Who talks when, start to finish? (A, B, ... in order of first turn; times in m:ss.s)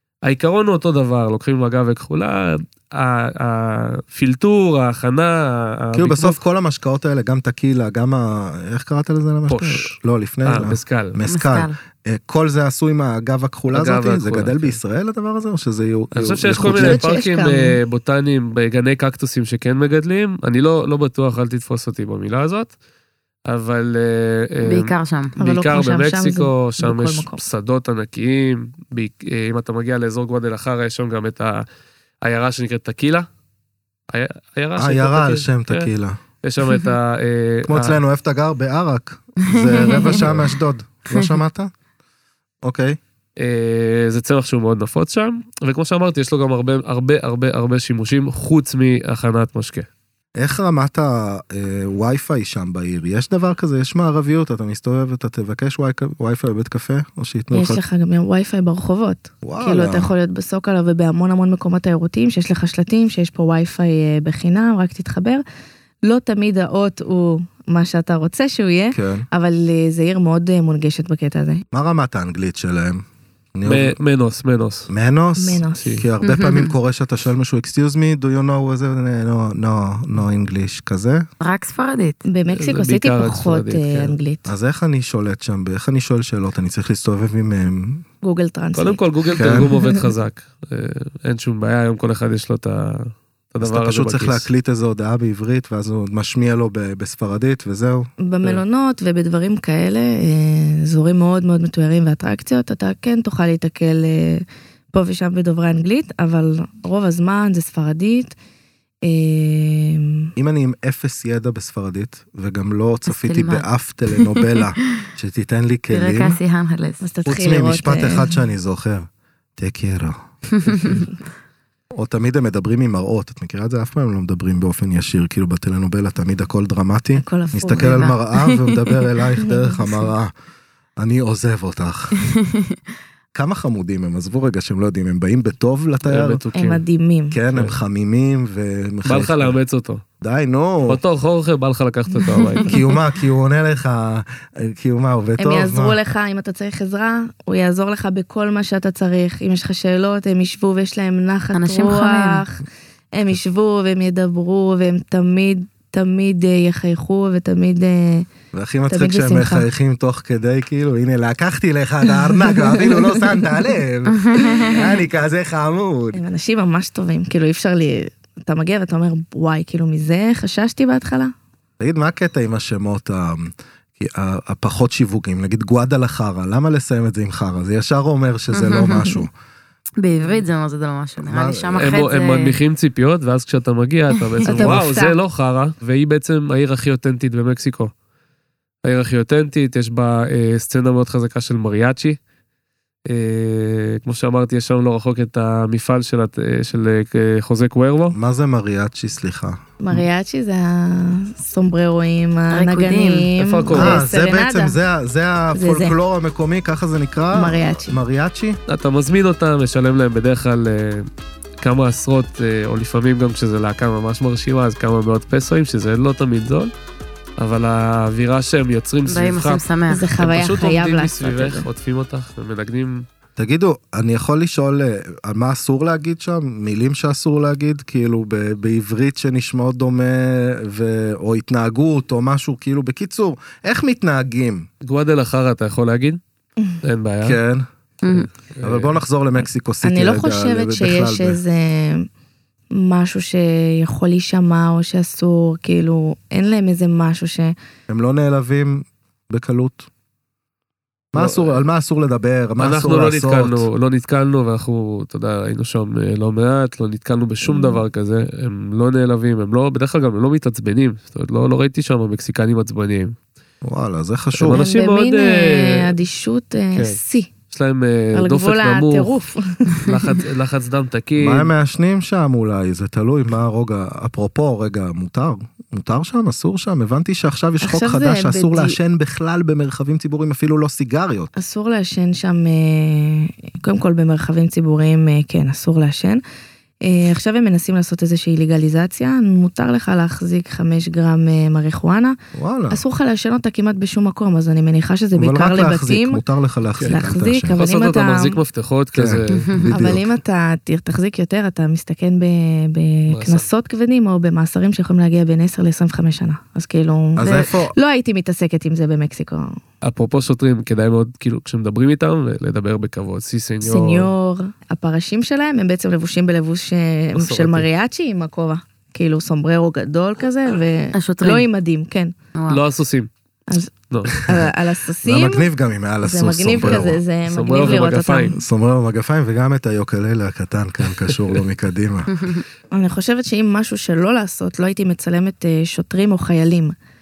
0:00.2-0:06.4 A
0:05.9-0:17.1 B
0:09.5-0:11.2 A
0:11.2-0:11.8 C
0:13.7-0:14.8 A
0:16.1-0:22.7 A
0:16.8-0:17.8 D
0:23.5-0:31.6 A
0:24.6-0:25.3 C
0:25.4-0:27.4 D
0:32.2-0:33.3 A
0:34.1-0:35.9 A
0:34.8-0:36.2 B
0:36.4-0:38.0 A
0:36.6-0:36.9 C
0:37.7-0:41.7 B
0:39.5-0:40.5 C
0:42.6-0:43.0 B
0:43.4-0:49.9 A
0:50.4-0:57.8 B
0:57.5-1:05.4 D
0:59.4-1:00.1 B
1:06.0-1:11.6 D
1:08.9-1:09.3 B
1:11.7-1:13.0 B
1:13.6-1:14.0 B
1:13.6-1:14.9 A
1:14.9-1:21.3 B
1:15.4-1:16.0 D
1:15.7-1:16.0 A
1:16.2-1:16.7 C
1:21.4-1:22.2 C
1:22.2-1:24.5 D
1:22.5-1:24.1 A
1:24.4-1:28.0 B
1:28.2-1:30.1 D
1:28.7-1:34.5 A
1:29.4-1:29.7 B
1:33.6-1:38.1 B
1:38.2-1:48.4 D
1:49.0-1:50.3 D
1:50.4-1:56.4 B
1:53.1-1:55.0 C
1:55.9-1:57.1 C
1:57.0-1:58.4 D
1:57.3-2:01.0 B
2:00.6-2:01.0 C
2:01.9-2:10.3 B
2:07.2-2:08.2 D
2:09.4-2:10.0 D
2:11.0-2:12.4 B
2:12.3-2:12.8 C
2:13.3-2:16.4 B
2:16.0-2:16.8 A
2:16.5-2:17.4 D
2:17.3-2:19.6 B
2:17.5-2:17.8 A
2:19.1-2:20.0 A
2:20.2-2:21.0 B
2:20.9-2:22.8 A
2:22.6-2:26.0 B
2:25.4-2:32.6 D
2:31.5-2:32.4 C
2:33.1-2:38.3 D
2:38.5-2:46.2 B
2:38.9-2:39.7 D
2:42.7-2:43.2 D
2:44.1-2:44.9 C
2:46.1-2:51.3 D
2:51.8-2:59.3 B
2:58.5-2:59.1 C
3:00.0-3:02.6 C
3:01.2-3:01.9 B
3:01.8-3:07.9 A
3:04.3-3:04.7 C
3:04.5-3:05.2 D
3:08.8-3:12.2 A
3:13.1-3:18.2 A
3:18.1-3:20.0 B
3:19.8-3:24.8 D
3:22.5-3:23.3 C
3:23.4-3:24.0 A
3:23.7-3:28.6 B
3:25.5-3:26.0 D
3:27.3-3:28.0 D
3:28.7-3:31.1 A
3:31.6-3:36.7 A
3:37.4-3:39.6 A
3:39.1-3:40.1 C
3:39.9-3:41.7 D
3:40.2-3:43.0 A
3:43.4-3:54.7 B
3:54.8-3:56.2 A
3:56.8-3:57.4 A
3:57.2-3:57.7 B
3:58.0-3:58.3 C
3:58.1-3:59.0 A
3:58.6-4:01.4 B
3:59.8-4:02.1 D
4:02.7-4:07.6 D
4:07.9-4:09.9 B
4:11.1-4:13.7 B
4:11.2-4:11.6 A
4:12.6-4:23.2 A
4:17.5-4:17.8 D
4:23.6-4:24.6 B
4:24.4-4:25.9 A
4:24.5-4:27.3 D
4:26.7-4:27.0 A
4:27.5-4:29.2 A
4:28.1-4:29.9 D
4:29.7-4:31.5 A
4:31.2-4:41.3 B
4:37.6-4:38.8 D
4:41.4-4:46.2 D
4:46.8-4:52.2 D
4:52.3-4:52.8 B
4:52.7-4:56.2 D
4:55.2-4:57.6 B
4:56.8-4:59.5 A
4:56.8-4:58.4 D
4:59.0-5:00.1 B
4:59.3-4:59.8 C
4:59.7-5:09.6 D
5:03.1-5:03.5 A
5:07.2-5:07.8 B
5:09.8-5:14.1 A
5:13.6-5:22.1 D
5:17.1-5:17.7 A
5:20.9-5:21.5 C
5:22.4-5:22.6 C
5:22.5-5:23.1 A
5:23.9-5:24.2 A
5:24.2-5:24.5 B
5:24.2-5:25.5 D
5:25.0-5:27.0 B
5:26.0-5:28.4 D
5:26.6-5:28.4 A
5:28.3-5:32.3 B
5:31.0-5:31.3 A
5:32.1-5:32.4 C
5:32.7-5:36.8 D